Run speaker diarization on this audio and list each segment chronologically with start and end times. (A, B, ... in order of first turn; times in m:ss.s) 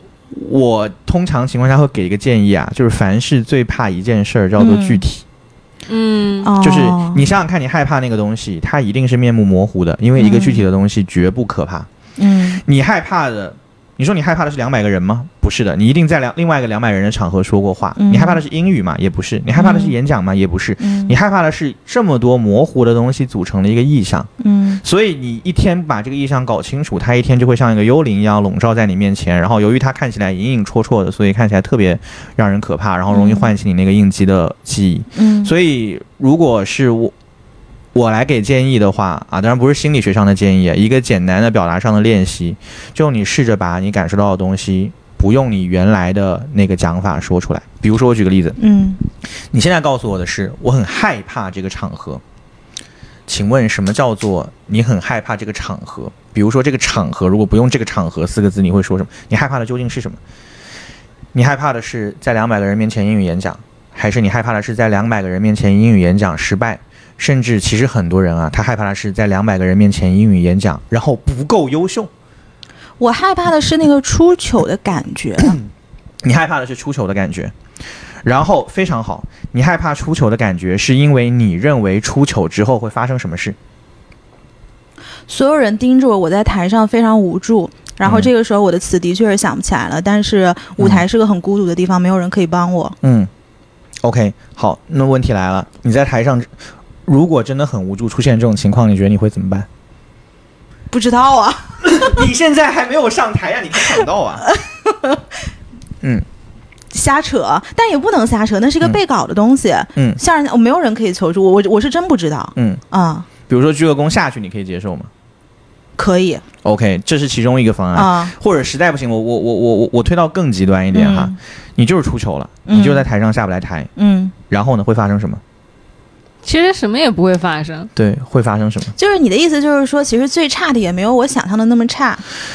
0:00.3-0:05.2 A
0:04.6-0:05.0 B
0:05.9-0:06.5 C
0:06.4-0:07.2 B
0:06.6-0:11.9 A
0:10.2-0:10.6 B
0:12.2-0:12.6 B
0:12.6-0:24.3 A
0:18.0-0:18.4 B
0:19.5-0:19.9 B
0:20.8-0:21.1 B
0:24.4-0:24.8 B
0:24.8-0:37.1 A
0:33.1-0:33.5 B
0:35.2-0:35.5 B
0:37.9-0:48.6 A
0:48.6-0:49.0 B
0:49.5-0:52.2 A
0:53.3-1:00.2 A
1:01.3-1:12.1 A
1:13.0-1:15.6 B
1:16.2-1:17.5 A
1:18.2-1:23.6 A
1:25.3-1:33.0 B
1:28.0-1:28.3 A
1:30.8-1:31.0 A
1:33.0-1:33.3 A
1:34.0-1:36.5 A
1:37.0-1:39.7 A
1:40.9-1:42.3 B
1:41.8-1:44.5 A
1:44.5-1:45.2 B
1:46.9-1:53.3 B
1:52.6-1:52.8 A
1:53.4-1:55.1 A
1:56.0-1:56.4 B
1:56.6-2:03.9 A
1:57.9-1:58.3 B
2:00.9-2:01.4 B
2:02.7-2:03.1 B
2:04.0-2:04.3 B
2:04.5-2:05.4 A
2:06.4-2:07.9 C
2:08.0-2:08.9 A
2:09.0-2:12.2 B